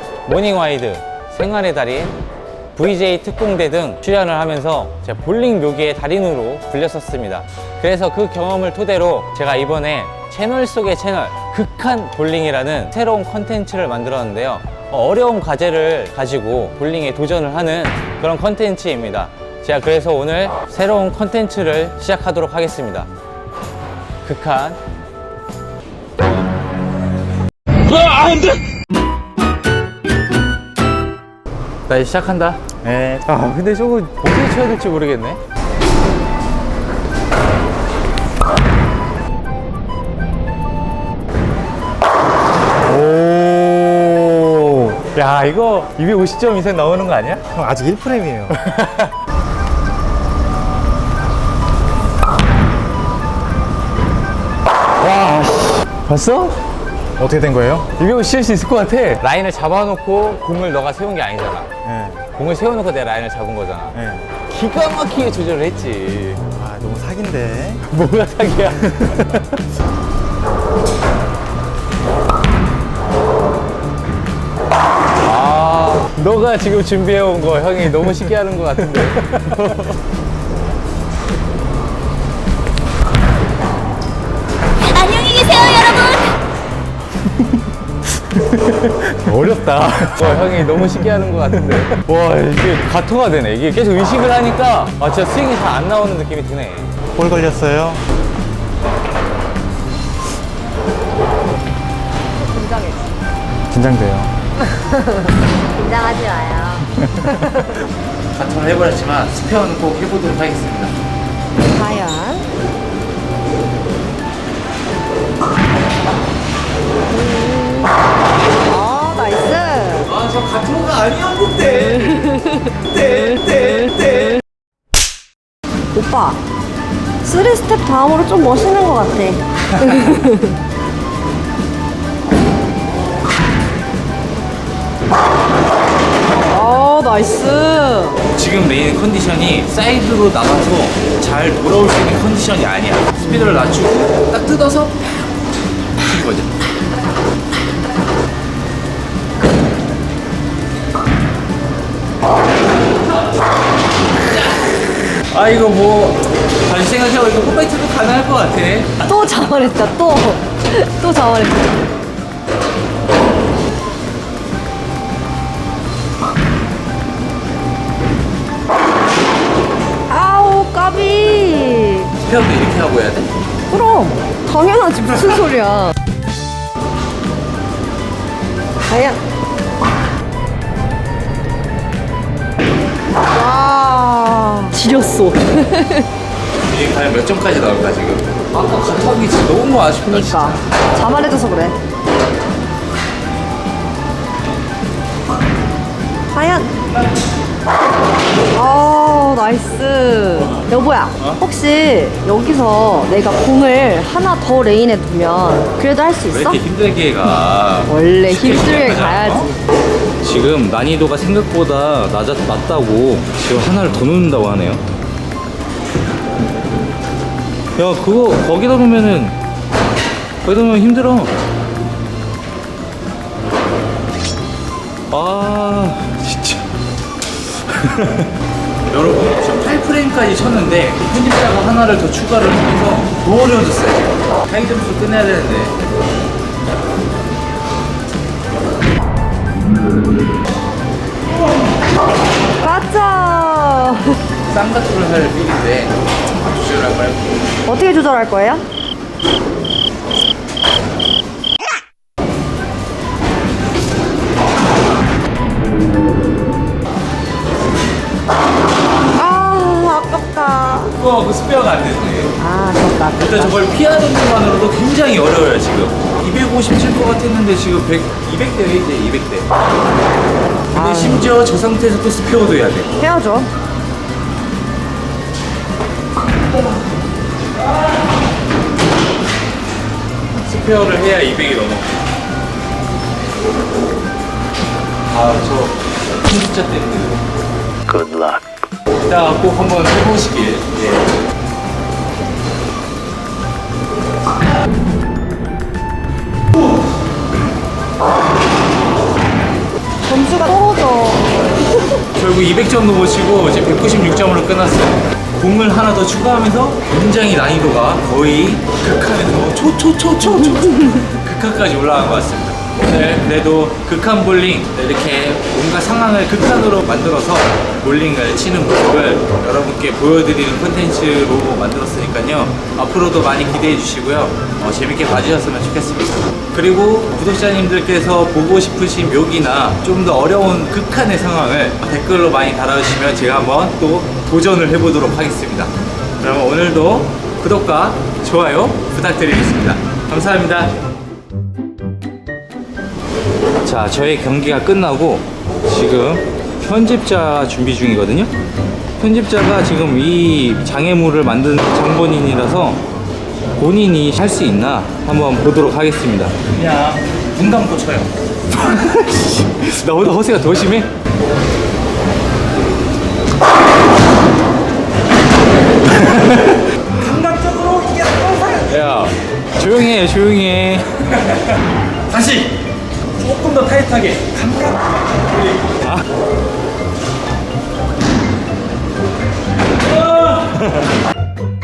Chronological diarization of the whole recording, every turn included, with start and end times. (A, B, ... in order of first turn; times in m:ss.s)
0:00.2-0:02.1 A
0:02.7-0:23.1 A
0:24.2-0:24.8 A
0:28.2-0:28.4 A
0:31.9-0:35.4 A
0:42.9-0:47.5 A
0:47.5-0:48.5 B
0:48.6-0:49.1 A
0:55.0-0:56.6 A
0:57.2-0:57.9 B
0:57.8-1:01.7 A
1:01.8-1:02.2 B
1:02.3-1:06.4 A
1:04.0-1:04.2 B
1:06.5-1:07.8 B
1:07.8-1:09.5 A
1:15.2-1:19.9 A
1:24.8-1:26.3 C
1:28.5-1:36.9 A
1:37.1-1:38.0 B
1:42.4-1:43.2 D
1:43.7-1:44.3 B
1:44.8-1:47.7 D
1:47.0-1:47.3 B
1:48.3-1:50.9 A
1:51.7-1:52.5 D
1:57.1-1:58.0 D
1:58.6-2:00.1 D
2:00.0-2:02.4 A
2:02.1-2:04.2 D
2:03.0-2:04.3 A
2:05.9-2:06.4 D
2:07.2-2:10.6 D
2:09.7-2:10.1 A
2:16.5-2:18.2 D
2:18.2-2:25.3 A
2:26.0-2:26.5 A
2:35.3-2:39.1 A
2:39.1-2:41.7 D
2:50.1-2:52.1 D
2:52.2-2:53.3 A
2:53.7-2:55.9 D
2:58.9-2:59.2 D
3:03.3-3:06.1 D
3:06.6-3:10.7 A
3:10.0-3:11.8 D
3:16.3-3:16.7 D
3:18.5-3:26.6 D
3:26.3-3:29.5 A
3:27.9-3:29.6 D
3:30.2-3:34.8 A
3:37.8-3:39.4 A
3:40.4-3:41.3 A
3:45.1-3:46.7 A
3:47.6-3:48.3 A
3:48.9-3:55.8 A
4:02.6-4:04.1 D
4:04.5-4:07.3 A
4:07.6-4:08.6 D
4:19.1-4:20.9 D
4:20.9-4:22.4 A
4:22.4-4:23.5 D
4:23.2-4:29.5 A
4:30.7-4:32.9 A
4:30.7-4:31.3 D
4:33.0-4:33.5 D
4:40.3-4:41.9 A
4:45.1-4:47.2 A
4:47.9-4:48.4 C
4:49.0-4:51.1 A
5:00.0-5:01.3 D
5:02.1-5:40.7 A
5:10.4-5:11.0 D
5:43.6-5:48.3 A
5:49.0-5:52.8 A
5:53.6-6:00.9 A
6:05.9-6:11.5 A
6:12.1-6:12.6 A
6:13.2-6:16.0 A
6:19.8-6:20.9 A